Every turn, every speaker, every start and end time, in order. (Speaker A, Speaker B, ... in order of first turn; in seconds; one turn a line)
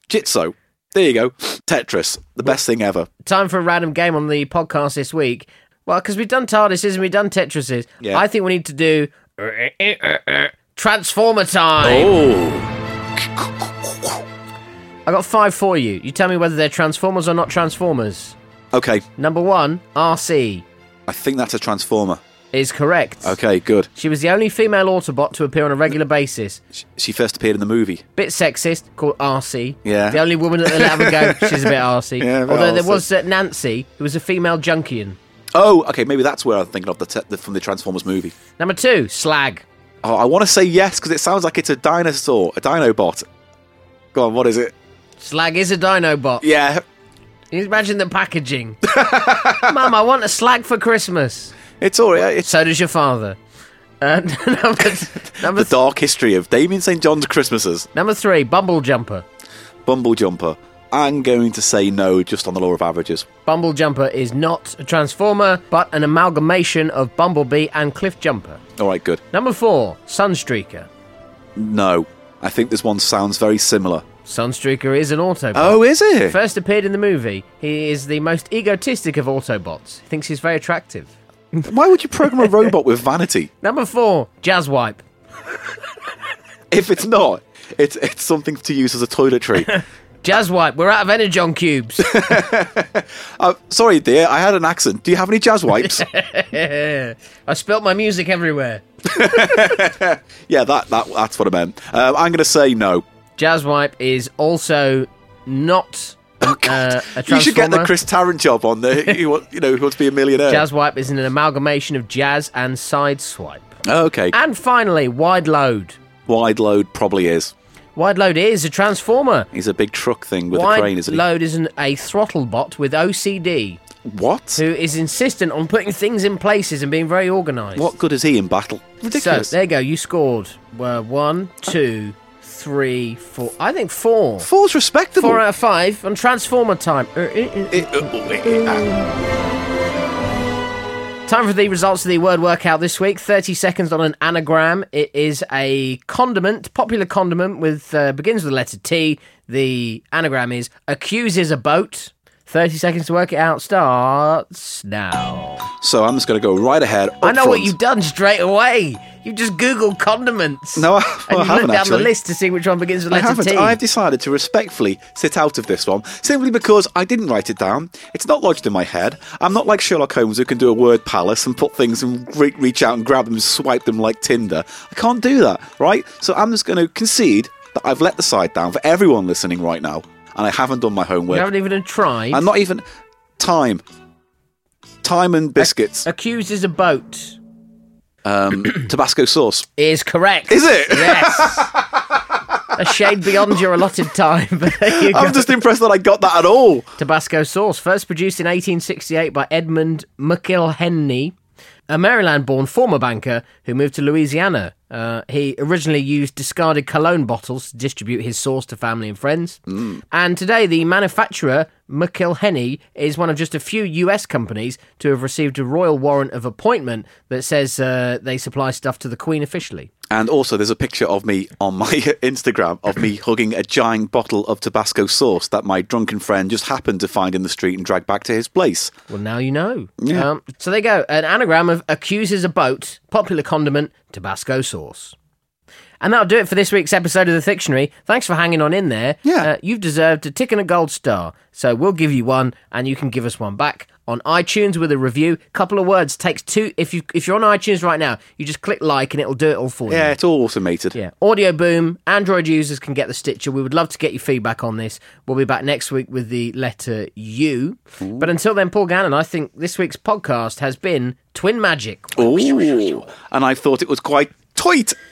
Speaker A: 0.1-3.1
Speaker B: 3.2-12.1
Speaker A: 11.8-12.7
Speaker B: 15.1-18.4
Speaker A: 18.7-19.1
Speaker B: 19.2-20.6
Speaker A: 21.1-22.2
Speaker B: 22.5-23.4
Speaker A: 23.2-23.9
Speaker B: 23.9-26.6
Speaker A: 26.7-28.0
Speaker B: 28.1-35.2
Speaker A: 29.8-33.0
Speaker A: 35.5-38.3
Speaker B: 38.6-39.6
Speaker A: 40.0-43.2
Speaker A: 44.1-44.7
Speaker B: 45.2-46.4
Speaker A: 46.4-46.8
Speaker B: 47.5-48.8
Speaker A: 48.8-49.7
Speaker B: 49.4-51.5
Speaker A: 51.8-52.5
Speaker B: 52.3-53.4
Speaker B: 54.0-55.8
Speaker A: 55.2-57.9
Speaker B: 57.9-59.2
Speaker A: 59.9-63.3
Speaker B: 63.5-68.6
Speaker A: 68.8-69.2
Speaker B: 69.3-70.9
Speaker A: 71.5-74.0
Speaker B: 74.2-81.7
Speaker A: 75.5-76.4
Speaker A: 81.6-83.5
Speaker B: 82.2-82.7
Speaker B: 83.6-85.0
Speaker A: 86.7-89.8
Speaker B: 89.6-92.5
Speaker A: 92.0-96.1
Speaker B: 95.8-99.8
Speaker A: 99.0-103.0
Speaker B: 103.4-107.9
Speaker A: 106.4-110.6
Speaker B: 110.5-113.8
Speaker A: 113.8-114.3
Speaker B: 114.3-116.0
Speaker A: 116.2-117.5
Speaker B: 118.0-119.5
Speaker A: 119.5-121.2
Speaker B: 120.5-123.8
Speaker A: 124.0-124.6
Speaker B: 124.5-127.9
Speaker A: 127.8-129.5
Speaker B: 129.1-134.5
Speaker A: 134.4-135.4
Speaker B: 135.2-139.1
Speaker A: 137.7-138.9
Speaker B: 141.2-155.7
Speaker A: 155.8-157.7
Speaker B: 157.2-163.8
Speaker A: 160.8-162.1
Speaker A: 163.1-181.5
Speaker B: 181.3-182.4
Speaker A: 182.3-182.8
Speaker A: 183.4-183.8
Speaker A: 185.0-186.1
Speaker B: 185.6-187.4
Speaker A: 188.2-189.7
Speaker B: 189.8-191.7
Speaker A: 190.5-192.0
Speaker B: 192.7-195.5
Speaker A: 192.9-193.6
Speaker A: 194.8-196.9
Speaker B: 197.0-201.3
Speaker B: 201.9-219.9
Speaker A: 209.7-210.0
Speaker A: 220.1-228.9
Speaker B: 229.1-235.2
Speaker A: 230.0-230.3
Speaker B: 236.0-250.2
Speaker A: 239.2-239.5
Speaker A: 249.9-251.0
Speaker B: 250.9-263.1
Speaker A: 258.0-258.3
Speaker A: 262.1-264.9